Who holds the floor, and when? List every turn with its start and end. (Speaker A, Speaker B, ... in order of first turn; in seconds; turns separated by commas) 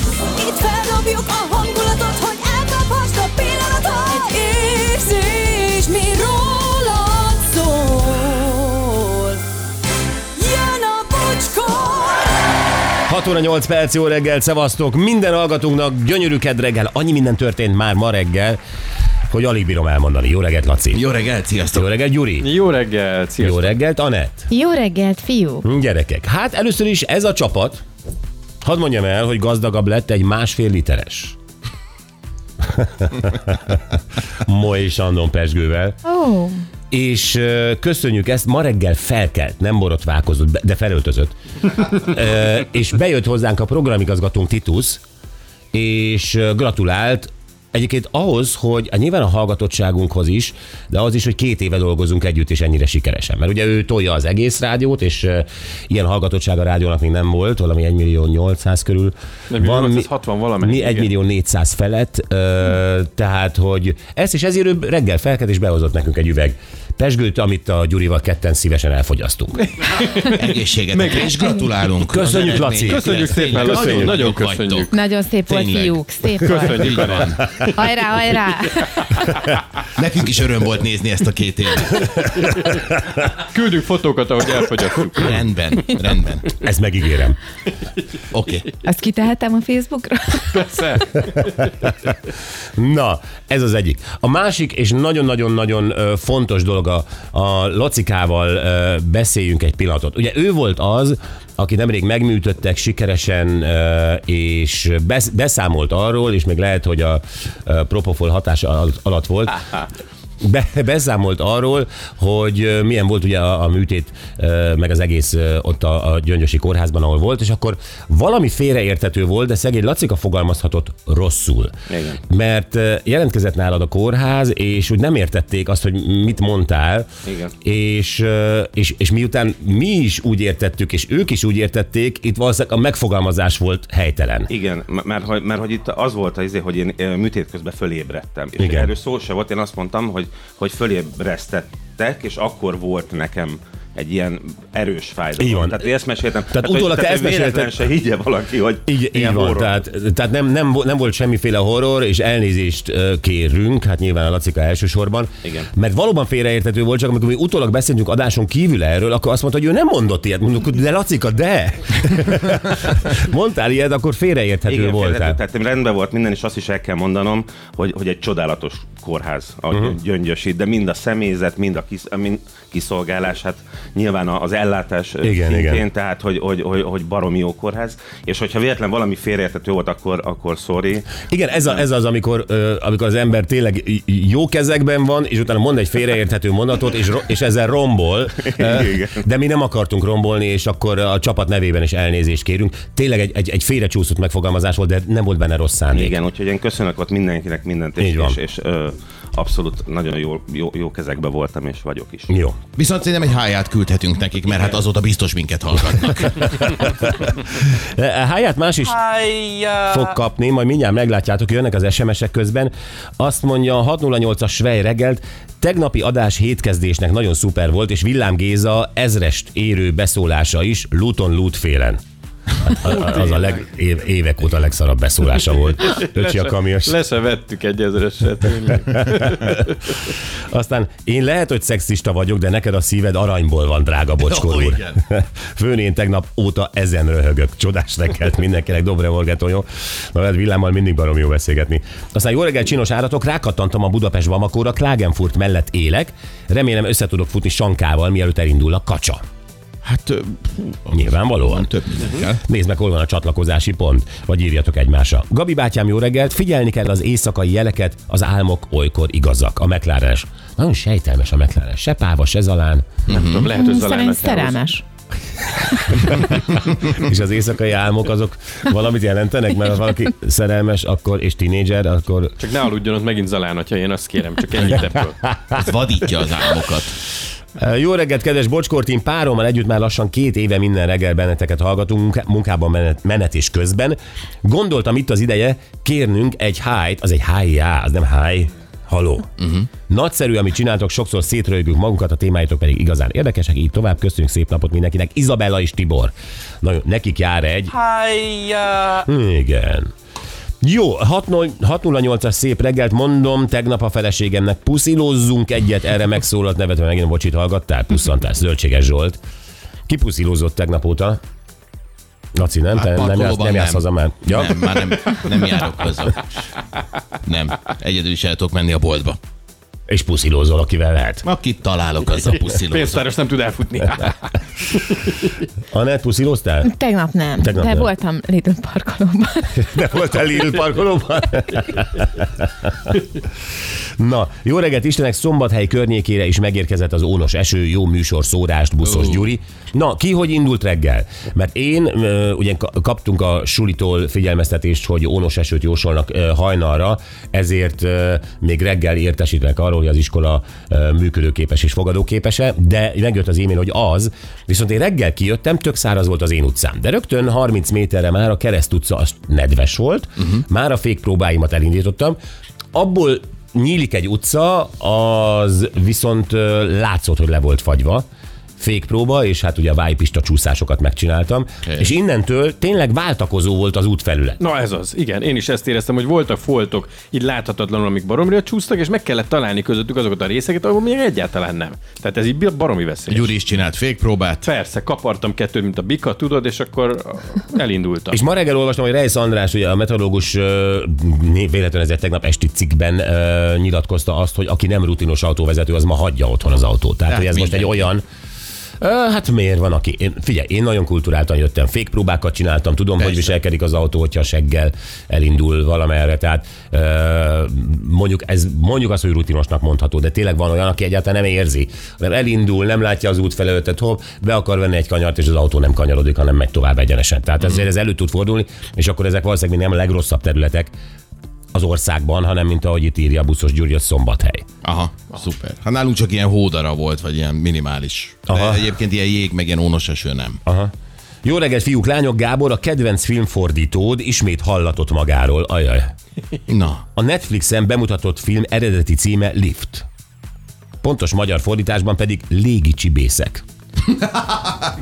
Speaker A: 0.3-9.4, Speaker A: 10.4-12.3, Speaker B: 13.1-18.6, Speaker B: 19.3-21.1, Speaker C: 20.9-21.9, Speaker B: 21.7-22.5, Speaker D: 22.4-23.7, Speaker B: 23.4-24.5, Speaker E: 24.5-25.7, Speaker B: 25.6-27.8, Speaker B: 28.6-31.4, Speaker B: 32.6-36.0, Speaker E: 36.0-36.6, Speaker B: 36.9-45.0, Speaker B: 45.7-60.1, Speaker D: 59.5-61.1, Speaker B: 60.6-69.6, Speaker D: 69.6-70.4, Speaker C: 70.2-76.0, Speaker D: 70.9-71.3, Speaker B: 72.1-74.1, Speaker D: 72.5-74.9, Speaker E: 74.9-79.2, Speaker D: 76.4-77.4, Speaker C: 76.6-77.5, Speaker C: 79.9-82.2, Speaker B: 82.6-83.0, Speaker D: 83.3-85.3, Speaker C: 85.2-86.5, Speaker B: 86.5-87.4, Speaker C: 88.3-88.7, Speaker E: 88.8-90.7, Speaker D: 90.5-91.3, Speaker B: 92.8-109.9, Speaker B: 110.4-121.8, Speaker F: 121.9-122.2, Speaker B: 122.3-127.1, Speaker F: 127.3-127.5, Speaker B: 127.6-134.5, Speaker F: 134.5-149.7, Speaker B: 138.6-138.9, Speaker B: 145.4-145.9, Speaker B: 146.5-147.9, Speaker B: 148.9-165.4, Speaker F: 164.7-181.2, Speaker B: 169.7-170.0, Speaker B: 175.2-175.8, Speaker B: 181.2-196.2, Speaker F: 188.6-189.2, Speaker F: 195.9-202.3, Speaker B: 198.0-198.4, Speaker B: 202.3-202.6, Speaker C: 202.8-206.7, Speaker B: 206.3-222.0, Speaker B: 222.6-227.0, Speaker D: 222.9-223.6, Speaker D: 225.9-229.7, Speaker B: 228.9-229.7, Speaker B: 230.5-249.2, Speaker C: 234.2-235.0, Speaker C: 249.8-252.4, Speaker B: 250.9-251.7, Speaker B: 252.4-263.0, Speaker C: 263.1-263.5, Speaker D: 263.1-264.6, Speaker E: 263.5-264.8, Speaker B: 265.9-272.4, Speaker D: 272.4-275.2, Speaker C: 275.5-276.9, Speaker B: 277.6-297.9, Speaker C: 289.4-289.7, Speaker B: 298.9-299.9, Speaker B: 300.6-309.2, Speaker B: 309.9-311.2, Speaker B: 312.4-314.9, Speaker C: 312.8-316.2, Speaker C: 317.2-319.2, Speaker B: 319.9-321.2, Speaker C: 321.2-323.1, Speaker D: 322.5-324.2, Speaker D: 324.7-325.1, Speaker B: 325.7-326.7, Speaker E: 326.6-329.7, Speaker B: 327.4-327.9, Speaker B: 329.6-333.0, Speaker B: 334.0-362.2, Speaker C: 338.9-339.2, Speaker B: 362.7-368.1, Speaker B: 368.6-374.4, Speaker C: 371.6-371.9, Speaker D: 374.4-383.3, Speaker C: 383.1-384.5, Speaker D: 384.4-388.2, Speaker B: 388.1-398.0, Speaker C: 397.1-397.8, Speaker B: 398.8-420.7, Speaker C: 403.0-403.3, Speaker B: 421.5-424.5, Speaker C: 424.6-430.4, Speaker B: 428.3-428.6, Speaker B: 430.5-430.7, Speaker B: 431.2-435.9, Speaker C: 436.5-436.8, Speaker B: 436.9-439.9, Speaker B: 440.8-443.4